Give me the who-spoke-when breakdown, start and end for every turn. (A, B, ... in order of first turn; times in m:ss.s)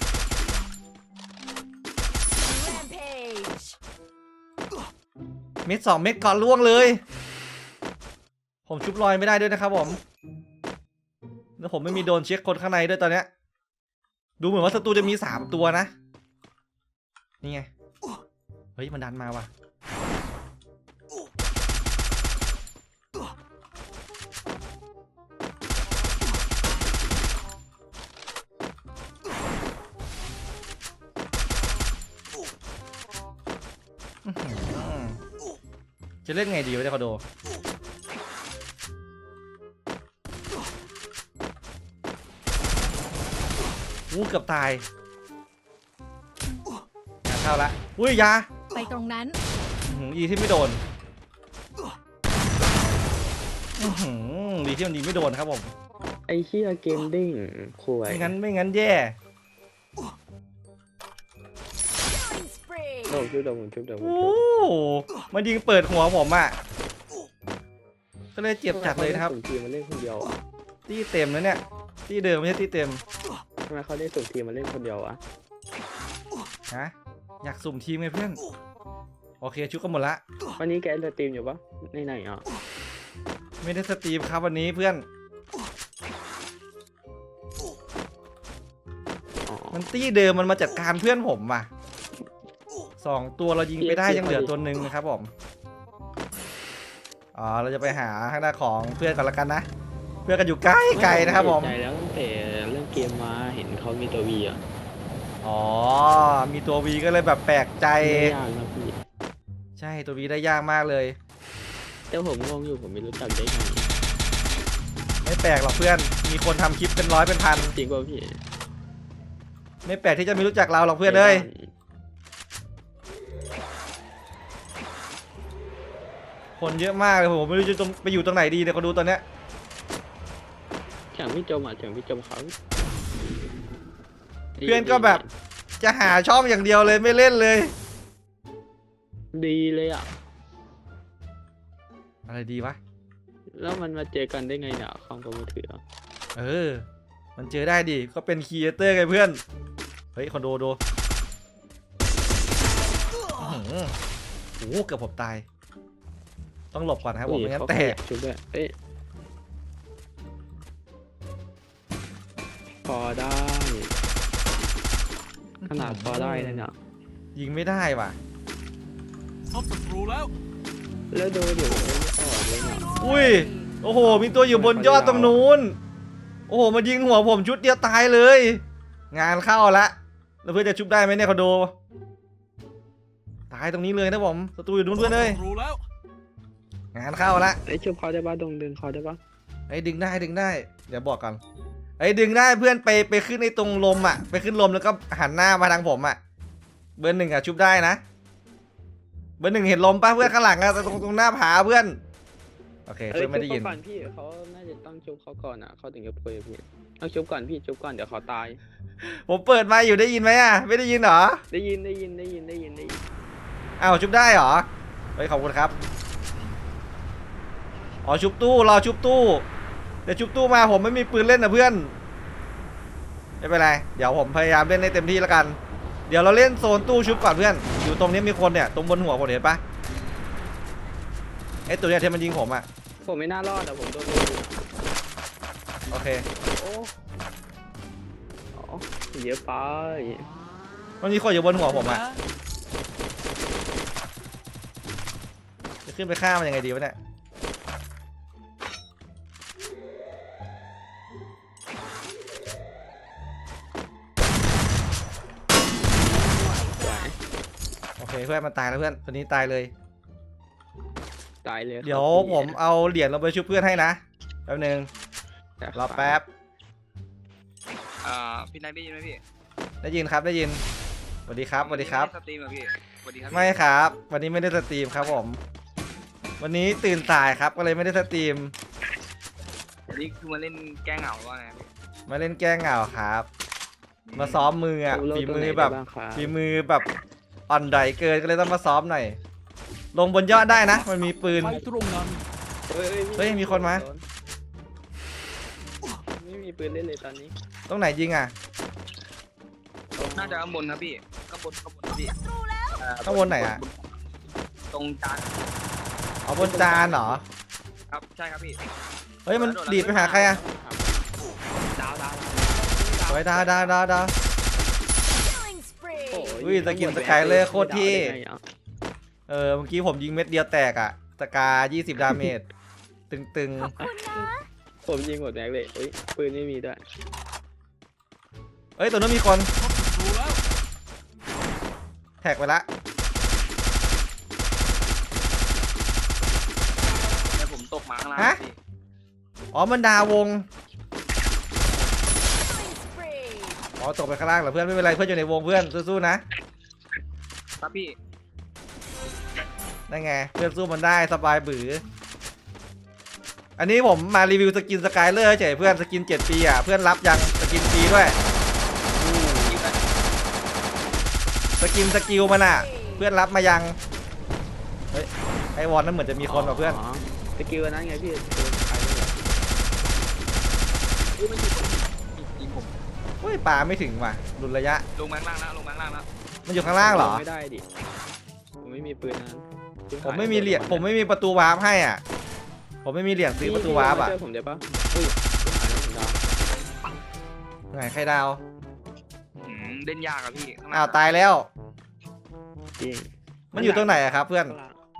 0:02.3-0:03.8 A
0:05.7-0:07.0 B
0:08.7-0:10.0 B
0:11.6-0:13.3 B
0:14.4-0:15.9 B
0:17.4-0:17.7 B
0:18.8-0:19.5 B
0:34.2-0:35.2 B
0:36.2-0:37.2 B
0:44.1-0:44.8 B
0:47.3-0:48.5 B
0:48.7-0:49.4 C
0:48.8-0:49.4 A
0:49.9-0:50.8 B
0:53.8-0:55.7 B
0:56.3-0:58.3 D
0:58.1-0:59.2 B
1:02.0-1:03.3 A
1:03.1-1:04.4 D
1:04.0-1:06.6 B
1:08.4-1:09.3 B
1:08.7-1:10.4 D
1:10.9-1:13.0 B
1:13.7-1:15.2 D
1:16.7-1:18.4 B
1:19.4-1:20.2 B
1:20.6-1:22.5 D
1:23.6-1:25.0 B
1:29.5-1:29.9 D
1:29.7-1:31.7 B
1:33.0-1:35.3 B
1:33.8-1:34.5 D
1:37.4-1:39.6 B
1:40.3-1:41.8 B
1:40.9-1:44.6 D
1:45.4-1:48.4 B
1:48.0-1:49.0 D
1:49.8-1:51.2 B
1:52.1-1:53.9 D
1:55.2-1:57.8 B
1:57.6-1:58.4 D
1:59.8-2:01.5 B
2:01.0-2:01.7 D
2:06.6-2:09.2 B
2:11.1-2:12.5 D
2:14.6-2:15.3 D
2:14.6-2:15.2 B
2:15.8-2:17.7 B
2:19.3-2:20.1 D
2:22.3-2:22.8 B
2:23.5-2:25.8 D
2:26.4-2:29.4 B
2:30.2-2:30.8 B
2:33.4-2:34.0 B
2:34.6-2:35.4 B
2:36.7-2:38.0 B
2:37.2-2:38.7 D
2:42.8-2:43.9 D
2:45.6-2:46.7 B
2:45.7-2:46.8 D
2:47.4-2:48.2 B
2:49.5-2:50.3 C
2:51.1-2:53.0 D
2:52.9-2:53.4 A
2:53.0-2:55.8 B
2:54.0-2:55.4 D
2:56.5-3:01.8 B
3:03.5-3:05.4 B
3:05.5-3:05.8 C
3:06.9-3:07.6 B
3:07.6-3:09.2 D
3:09.7-3:11.4 B
3:12.0-3:16.2 B
3:17.0-3:18.0 B
3:19.4-3:22.0 B
3:22.9-3:23.8 B
3:23.1-3:28.6 D
3:29.0-3:31.4 B
3:31.5-3:33.0 D
3:33.8-3:35.7 B
3:38.0-3:39.5 B
3:40.1-3:41.9 B
3:43.4-3:49.6 B
3:51.7-3:52.7 B
3:53.0-3:54.6 D
3:55.9-3:56.3 B
3:56.5-3:56.9 D
3:58.5-4:00.3 D
4:01.0-4:02.1 B
4:05.9-4:07.0 B
4:16.0-4:17.2 A
4:16.8-4:17.2 D
4:18.0-4:19.7 B
4:21.4-4:22.6 D
4:21.8-4:24.9 B
4:25.6-4:26.2 D
4:25.7-4:26.3 B
4:28.0-4:29.2 E
4:29.8-4:30.6 B
4:31.3-4:32.1 B
4:31.6-4:33.6 E
4:33.3-4:35.4 B
4:36.4-4:38.5 B
4:39.9-4:41.7 E
4:42.1-4:43.3 B
4:44.1-4:46.8 B
4:44.9-4:46.4 D
4:47.5-4:49.2 B
4:50.0-4:51.6 B
4:51.4-4:52.2 C
4:52.7-4:54.0 D
4:53.2-4:53.8 B
4:56.2-4:57.3 D
4:57.7-4:58.3 B
5:00.0-5:00.4 D
5:00.2-5:02.2 E
5:02.2-5:02.8 A
5:02.8-5:03.9 E
5:03.0-5:03.6 B
5:04.7-5:05.5 E
5:06.2-5:07.2 B
5:06.4-5:07.2 D
5:07.9-5:08.6 E
5:09.3-5:10.4 B
5:09.3-5:10.3 E
5:09.9-5:11.0 D
5:11.8-5:13.8 D
5:13.1-5:14.1 B
5:15.1-5:16.4 A
5:16.1-5:18.4 D
5:16.4-5:18.2 B
5:19.3-5:22.4 B
5:22.0-5:22.3 D
5:23.1-5:23.8 B
5:23.7-5:24.5 A
5:24.8-5:26.8 D
5:28.8-5:29.5 B
5:29.7-5:30.4 C
5:32.2-5:32.7 B
5:37.3-5:38.6 E
5:39.5-5:40.5 B
5:42.3-5:43.6 A
5:43.8-5:46.2 B
5:47.6-5:48.0 E
5:49.9-5:51.8 B
5:53.6-5:58.2 B
5:59.5-5:59.8 E
6:01.6-6:03.8 B
6:02.1-6:03.0 A
6:04.9-6:06.8 B
6:06.2-6:09.3 D
6:11.1-6:12.7 E
6:13.2-6:14.8 B
6:15.0-6:16.1 E
6:16.5-6:17.3 B
6:16.6-6:17.7 D
6:18.6-6:20.9 D
6:20.0-6:22.0 B
6:22.8-6:24.2 B
6:23.4-6:26.2 D
6:27.7-6:28.4 B
6:29.4-6:31.2 E
6:30.7-6:31.5 B
6:32.8-6:34.8 D
6:33.5-6:34.6 B